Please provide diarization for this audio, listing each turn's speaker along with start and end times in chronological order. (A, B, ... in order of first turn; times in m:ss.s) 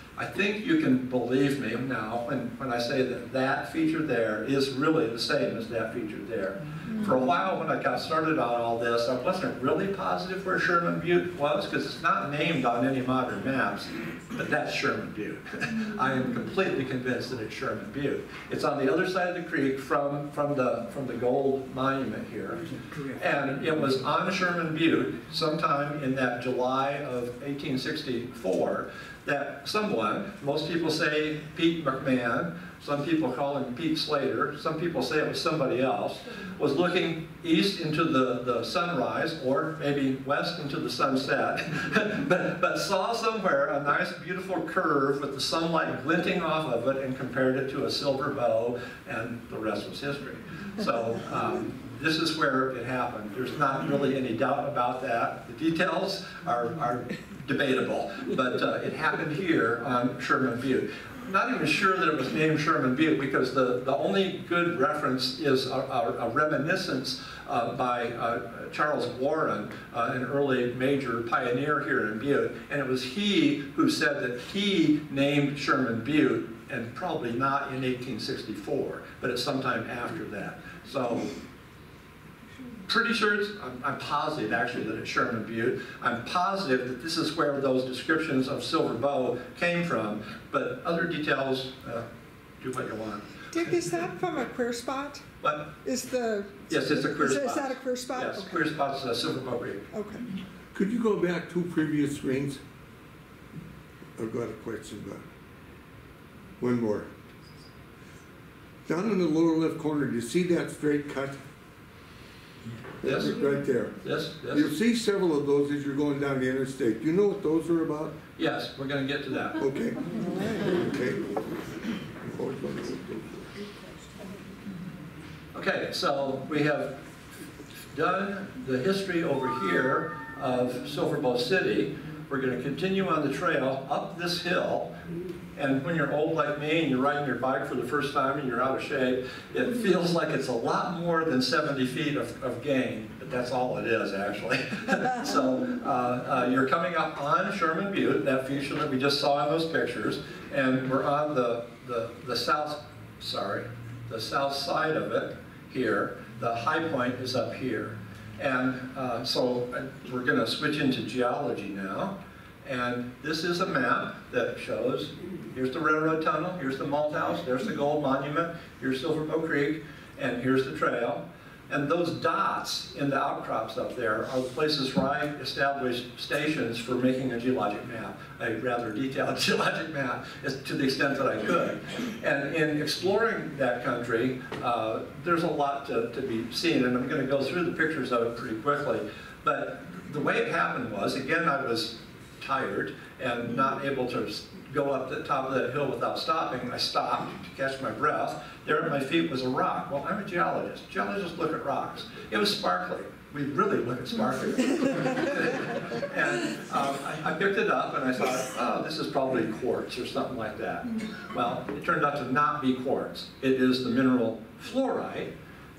0:00.2-1:21.3 A
1:22.9-1:32.0 A
1:32.6-1:33.3 A
1:33.5-1:35.3 B
1:35.4-1:35.8 A
1:35.8-1:38.4 B
1:36.7-1:39.9 A
1:39.9-1:40.2 B
1:40.7-1:42.6 C
1:44.2-1:45.2 C
1:46.6-1:47.1 C
1:48.8-1:51.4 C
1:53.0-1:54.0 C
1:53.0-1:53.3 A
1:54.0-1:54.7 A
1:54.5-1:58.1 C
1:58.4-1:59.6 A
1:59.6-2:01.4 C
2:02.2-2:03.4 C
2:05.5-2:07.0 A
2:07.9-2:15.0 A
2:15.5-3:35.3 A